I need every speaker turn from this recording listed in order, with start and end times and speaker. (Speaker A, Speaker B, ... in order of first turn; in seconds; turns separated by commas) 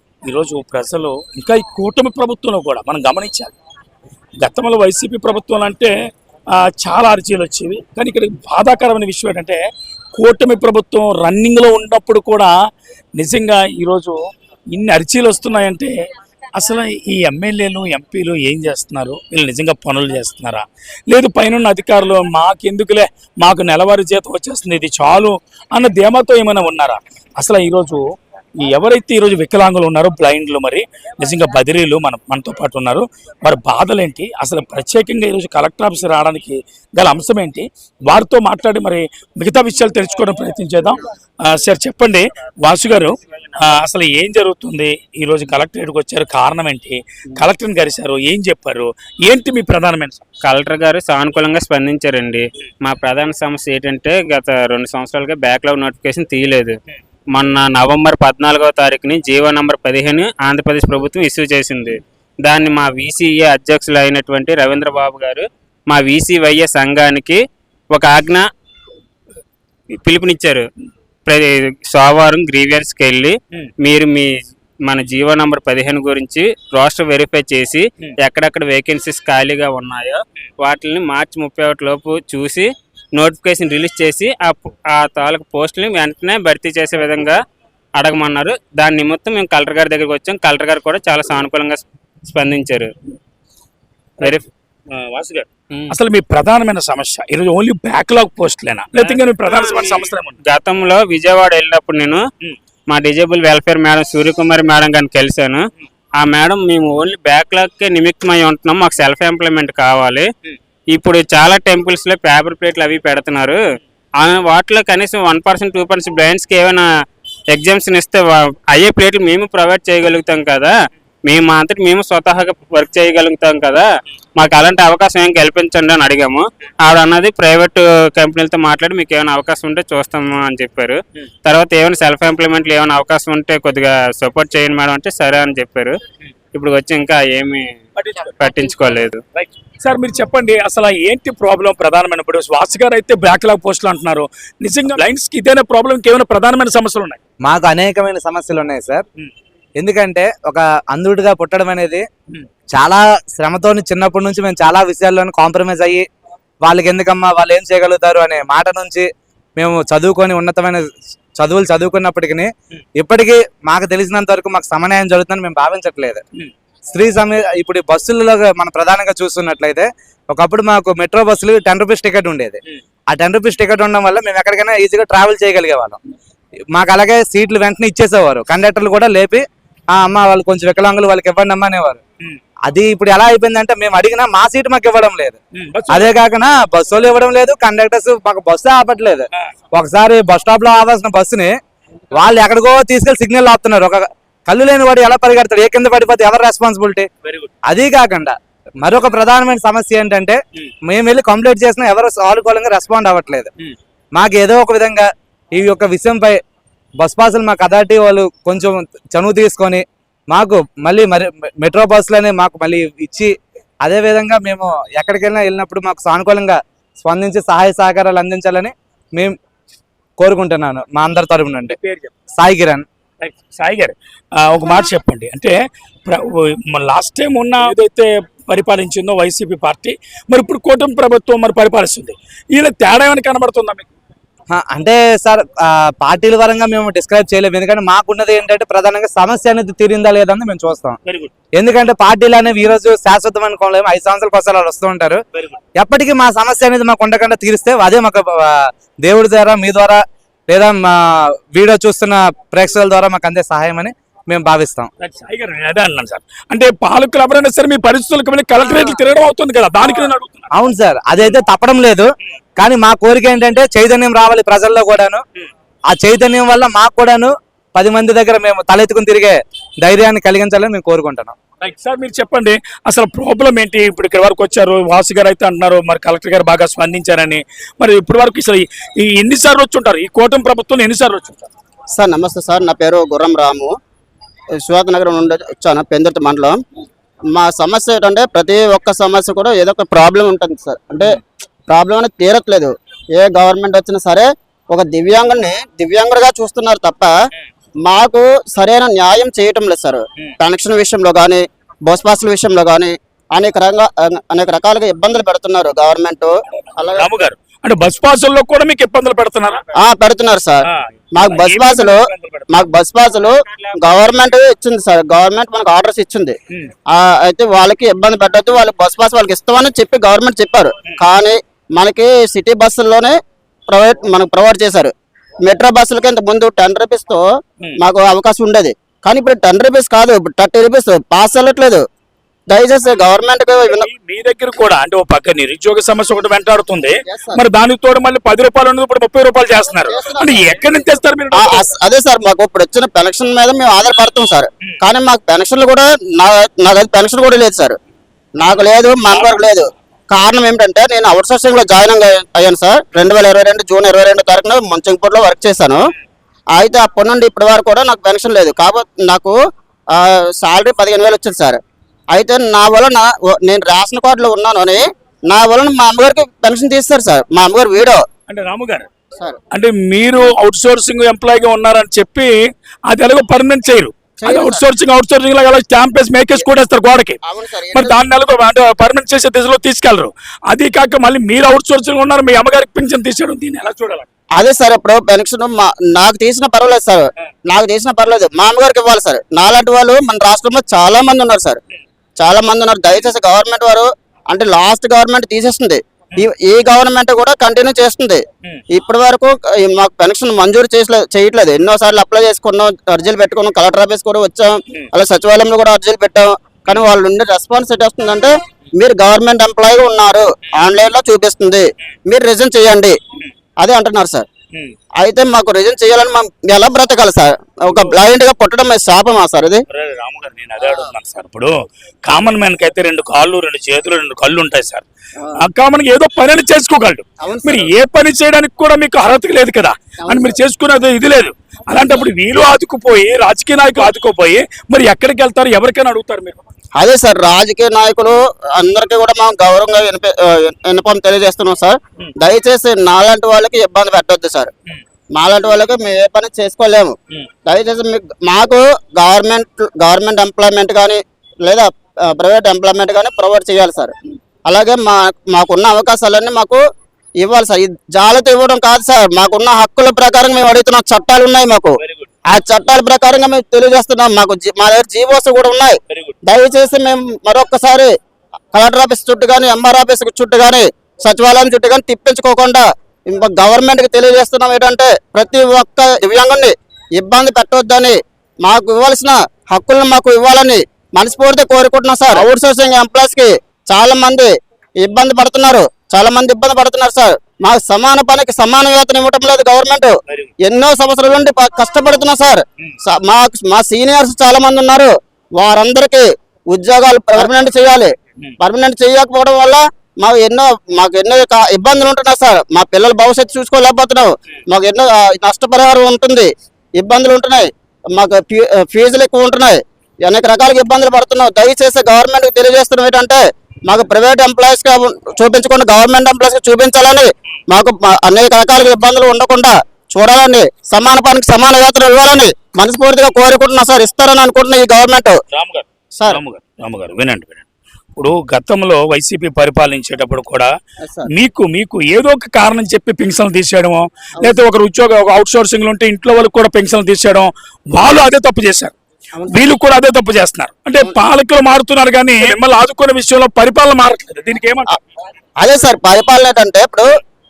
Speaker A: 0.2-3.5, Speaker A: 4.4-5.9, Speaker A: 6.5-9.6, Speaker A: 10.1-12.5, Speaker A: 13.2-14.2, Speaker A: 14.7-15.9, Speaker A: 16.6-28.0, Speaker A: 28.6-50.3, Speaker B: 50.4-56.8, Speaker B: 57.3-67.4, Speaker B: 67.9-68.5, Speaker B: 69.9-70.7, Speaker B: 71.3-74.4, Speaker B: 74.9-87.4, Speaker B: 88.0-92.9, Speaker A: 94.9-100.4, Speaker B: 99.0-102.3, Speaker B: 102.9-105.7, Speaker B: 106.2-110.3, Speaker B: 110.9-113.6, Speaker B: 114.2-116.9, Speaker B: 117.5-120.7, Speaker B: 121.3-123.9, Speaker B: 124.4-136.0, Speaker B: 136.5-139.2, Speaker A: 138.0-147.2, Speaker C: 147.5-149.0, Speaker C: 149.8-152.1, Speaker C: 152.7-156.1, Speaker C: 156.6-166.2, Speaker C: 166.9-172.6, Speaker C: 173.1-176.0, Speaker C: 176.7-182.0, Speaker C: 182.7-185.4, Speaker A: 185.6-186.1, Speaker C: 185.9-191.6, Speaker C: 192.1-197.1, Speaker A: 197.2-197.5, Speaker C: 197.7-203.5, Speaker C: 204.2-206.4, Speaker C: 207.0-213.3, Speaker C: 213.8-219.4, Speaker C: 220.2-221.8, Speaker A: 221.7-222.1, Speaker C: 222.4-222.8, Speaker A: 223.2-233.9, Speaker C: 234.5-241.0, Speaker A: 241.1-241.3, Speaker C: 241.6-245.2, Speaker A: 245.3-245.6, Speaker C: 245.8-254.9, Speaker A: 255.0-260.5, Speaker C: 260.5-265.2, Speaker C: 265.9-271.4, Speaker A: 271.6-281.5, Speaker D: 281.9-283.7, Speaker D: 284.6-286.6, Speaker D: 287.3-297.1, Speaker D: 297.8-307.1, Speaker A: 306.5-309.6, Speaker D: 309.8-310.6, Speaker A: 310.6-312.7, Speaker D: 311.2-316.4, Speaker D: 316.9-327.3, Speaker D: 327.8-331.8, Speaker D: 332.5-333.9, Speaker A: 333.6-341.7, Speaker D: 337.1-337.4, Speaker D: 339.9-340.6, Speaker D: 341.3-347.8, Speaker D: 348.4-355.8, Speaker A: 349.1-349.4, Speaker D: 356.5-359.4, Speaker D: 359.9-361.6, Speaker D: 362.1-368.0, Speaker A: 368.3-368.9, Speaker A: 369.5-372.3, Speaker A: 372.9-377.2, Speaker D: 374.2-374.6, Speaker D: 377.2-378.0, Speaker A: 377.7-384.1, Speaker D: 384.4-391.6, Speaker D: 392.2-413.0, Speaker D: 413.6-414.3, Speaker D: 415.0-419.6, Speaker A: 417.7-417.9, Speaker A: 419.7-421.5, Speaker A: 422.1-424.9, Speaker A: 425.4-436.4, Speaker D: 427.2-427.7, Speaker D: 430.0-430.3, Speaker D: 436.8-444.5, Speaker D: 445.1-453.9, Speaker D: 454.5-456.6, Speaker D: 457.2-467.9, Speaker A: 461.8-462.1, Speaker A: 465.9-466.2, Speaker D: 468.5-525.2, Speaker A: 525.3-530.5, Speaker D: 526.0-526.2, Speaker D: 530.9-531.1, Speaker A: 531.1-538.8, Speaker D: 539.2-539.5, Speaker A: 539.3-544.8, Speaker D: 545.4-546.9